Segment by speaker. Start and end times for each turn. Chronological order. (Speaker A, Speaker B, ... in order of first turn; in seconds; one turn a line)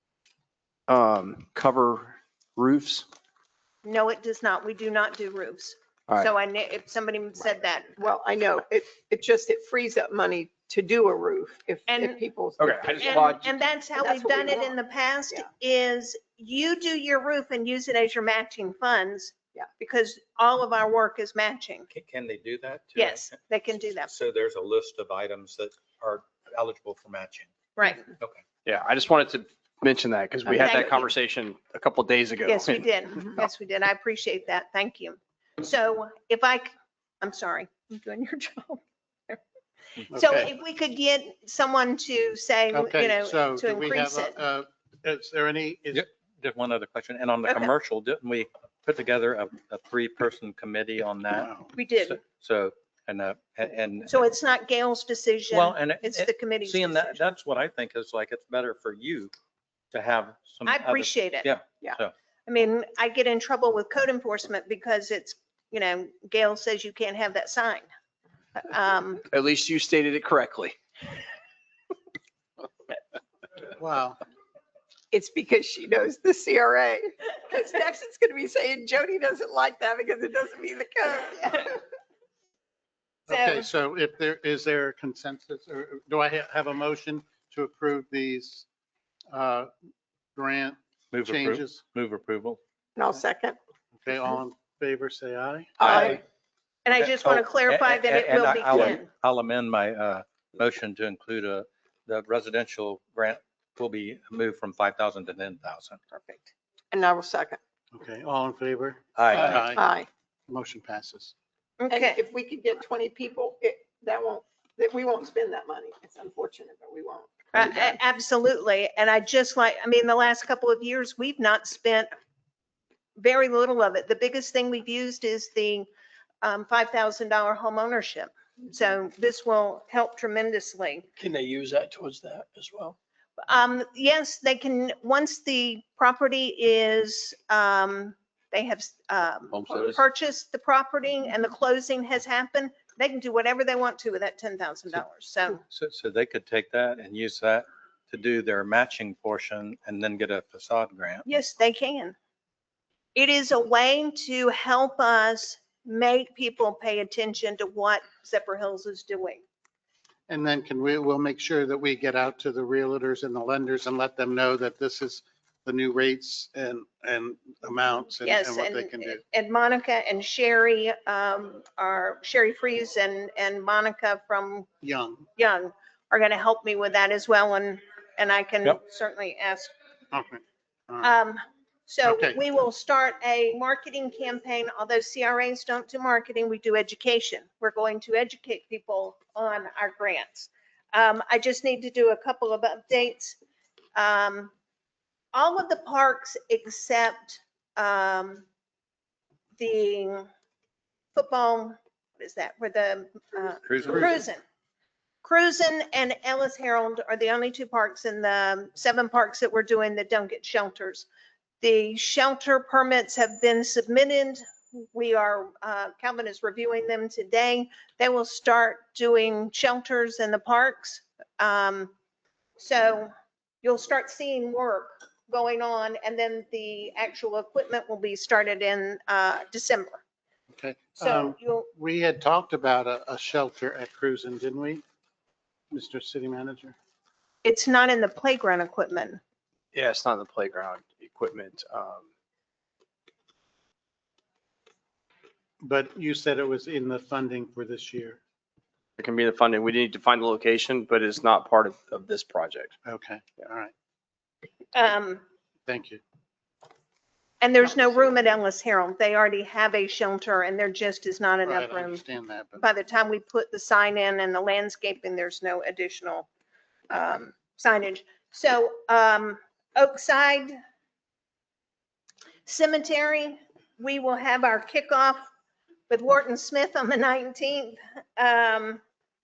Speaker A: 0.9-3.1
Speaker B: 3.8-8.0
Speaker C: 8.0-14.7
Speaker B: 11.9-12.2
Speaker A: 12.6-13.5
Speaker B: 13.0-21.9
Speaker D: 21.9-23.4
Speaker B: 23.0-24.1
Speaker D: 24.0-27.5
Speaker B: 27.8-28.1
Speaker A: 28.6-32.9
Speaker B: 30.5-31.1
Speaker B: 32.5-39.4
Speaker E: 40.1-40.5
Speaker B: 40.1-44.4
Speaker E: 42.7-46.1
Speaker D: 45.9-54.2
Speaker B: 47.5-47.7
Speaker E: 51.4-51.7
Speaker B: 51.7-52.2
Speaker B: 54.1-57.3
Speaker D: 55.5-59.3
Speaker D: 59.9-62.1
Speaker B: 60.7-61.5
Speaker B: 62.5-67.9
Speaker B: 68.6-69.2
Speaker A: 69.3-70.8
Speaker E: 73.8-74.2
Speaker C: 75.1-81.8
Speaker B: 83.3-83.7
Speaker E: 83.3-88.7
Speaker E: 89.3-89.7
Speaker E: 90.3-91.8
Speaker D: 91.1-92.6
Speaker C: 93.0-93.6
Speaker E: 94.0-96.1
Speaker C: 95.8-96.2
Speaker A: 95.8-96.2
Speaker B: 96.9-99.1
Speaker D: 97.0-106.0
Speaker B: 106.1-106.5
Speaker C: 106.9-107.6
Speaker E: 107.9-109.8
Speaker D: 109.2-109.6
Speaker F: 109.3-109.6
Speaker C: 109.7-110.1
Speaker E: 110.5-111.3
Speaker B: 111.8-112.2
Speaker C: 111.9-118.0
Speaker B: 117.5-122.1
Speaker B: 123.2-125.9
Speaker B: 126.4-131.1
Speaker F: 131.2-133.0
Speaker B: 133.5-145.6
Speaker D: 145.7-151.3
Speaker B: 151.3-152.2
Speaker B: 153.2-159.4
Speaker E: 160.3-169.2
Speaker B: 168.2-174.7
Speaker E: 174.8-175.3
Speaker B: 175.4-179.7
Speaker E: 180.1-181.1
Speaker B: 181.0-193.4
Speaker E: 182.0-182.4
Speaker B: 193.9-194.5
Speaker B: 195.3-198.5
Speaker B: 199.6-200.3
Speaker B: 201.2-204.4
Speaker D: 203.6-204.2
Speaker B: 205.2-211.1
Speaker B: 211.6-221.9
Speaker B: 222.6-223.1
Speaker B: 223.6-230.0
Speaker E: 230.5-234.8
Speaker B: 231.0-231.7
Speaker E: 235.7-236.8
Speaker B: 237.4-239.2
Speaker A: 239.7-242.1
Speaker E: 245.6-248.2
Speaker A: 249.0-252.7
Speaker E: 252.8-253.7
Speaker B: 254.7-255.2
Speaker E: 255.7-256.0
Speaker B: 257.4-262.0
Speaker E: 261.4-262.6
Speaker B: 262.6-266.3
Speaker B: 266.9-270.6
Speaker B: 272.5-275.2
Speaker B: 275.9-278.8